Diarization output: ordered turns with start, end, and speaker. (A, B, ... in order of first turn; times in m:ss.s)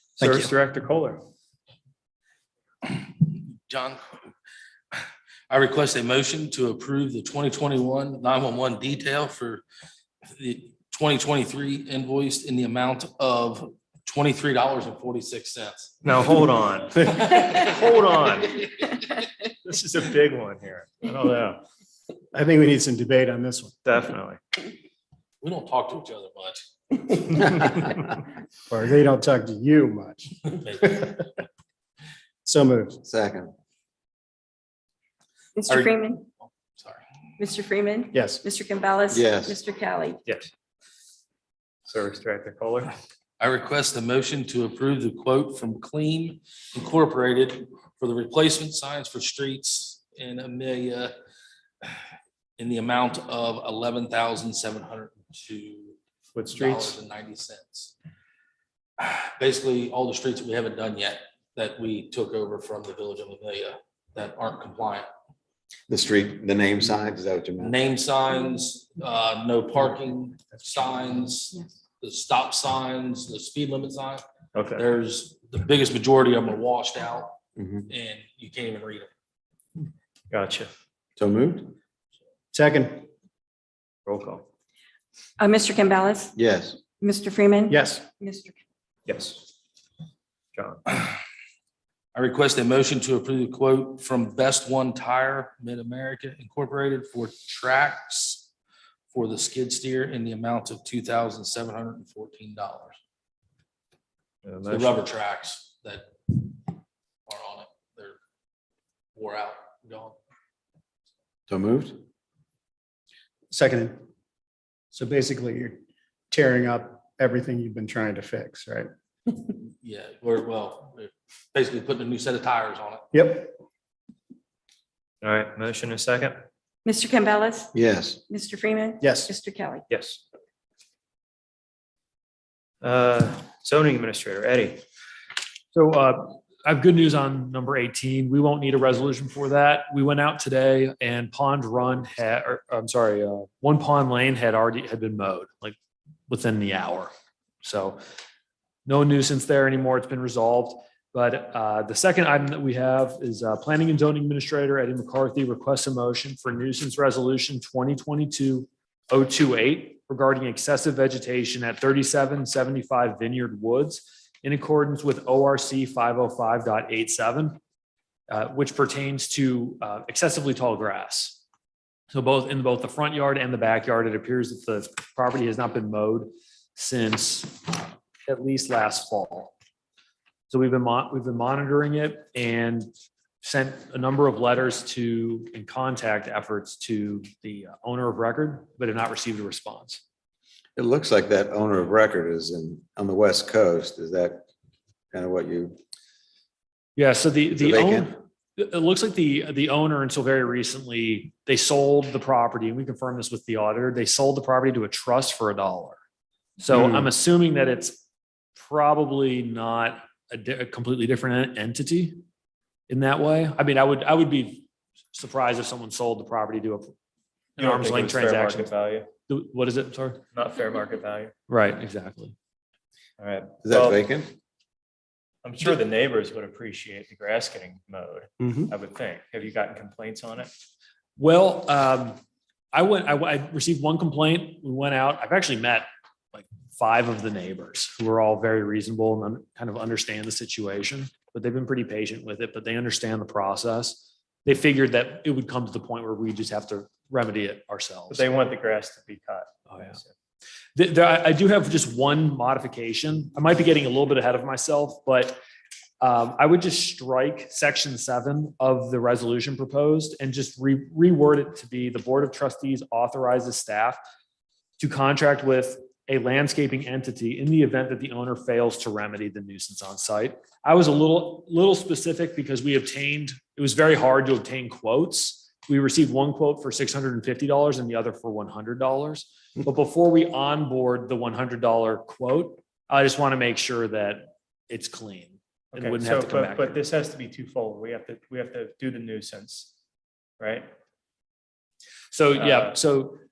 0:00.2-0:01.2 A
0:00.2-0:00.5 B
0:02.8-0:04.0 C
0:05.5-0:09.6 C
0:10.3-0:16.0 C
0:16.0-0:18.7 A
0:17.0-0:17.2 B
0:17.1-0:17.6 C
0:19.6-0:21.6 A
0:22.3-0:23.7 B
0:23.8-0:24.4 A
0:25.4-0:27.0 C
0:28.7-0:31.2 B
0:30.6-0:31.0 C
0:32.4-0:33.0 B
0:33.0-0:33.5 D
0:35.6-0:36.2 E
0:35.7-0:37.0 C
0:37.4-0:40.2 E
0:38.1-0:38.4 B
0:39.1-0:39.6 D
0:41.9-0:42.9 A
0:43.4-0:51.1 C
0:52.6-0:56.0 C
0:56.3-0:57.0 A
0:56.5-0:57.9 C
0:59.0-1:05.1 C
1:05.9-1:07.8 D
1:07.6-1:14.2 C
1:14.5-1:14.8 A
1:14.8-1:19.1 C
1:17.6-1:17.9 D
1:20.3-1:20.7 A
1:21.2-1:21.7 D
1:22.5-1:23.1 B
1:24.1-1:24.4 A
1:25.4-1:26.3 E
1:26.3-1:26.8 D
1:27.0-1:28.6 E
1:27.7-1:28.1 B
1:29.1-1:29.4 A
1:30.5-1:30.8 A
1:32.1-1:38.5 C
1:39.1-1:43.0 C
1:44.4-1:45.0 A
1:44.7-1:46.7 C
1:47.3-1:48.2 C
1:49.2-1:50.2 C
1:51.5-1:52.0 D
1:53.5-1:54.0 B
1:54.9-1:58.9 B
1:59.8-2:03.0 C
2:03.1-2:03.6 B
2:05.2-2:06.4 A
2:06.8-2:07.7 E
2:07.7-2:08.2 D
2:08.3-2:09.8 E
2:09.0-2:09.3 B
2:09.9-2:10.2 A
2:12.8-2:14.8 A
2:15.7-2:25.7 F
2:26.3-2:27.1 F
2:27.6-2:28.0 F
2:28.8-2:47.6 F
2:48.3-2:51.4 F
2:52.1-2:59.5 F
3:00.5-3:02.9 F
3:03.4-3:10.0 F
3:10.8-3:14.4 D
3:15.1-3:15.8 D
3:17.0-3:26.0 F
3:17.5-3:18.1 D
3:26.6-3:28.0 F
3:26.7-3:27.0 D
3:28.6-3:32.2 F
3:32.9-3:36.9 F
3:37.6-3:38.7 F
3:37.6-3:39.1 A
3:39.3-3:40.2 F
3:40.3-3:41.3 A
3:41.5-3:42.4 F
3:43.2-3:44.0 A
3:43.6-3:44.3 D
3:45.4-3:50.5 A
3:48.4-3:48.7 B
3:51.2-3:52.2 F
3:52.7-4:08.2 F
4:08.1-4:10.1 A
4:09.7-4:10.0 F
4:10.7-4:15.4 F
4:16.0-4:24.0 F
4:24.8-4:46.8 F
4:45.7-4:49.7 A
4:50.4-4:50.7 A
4:52.1-4:53.2 F
4:52.4-4:52.8 A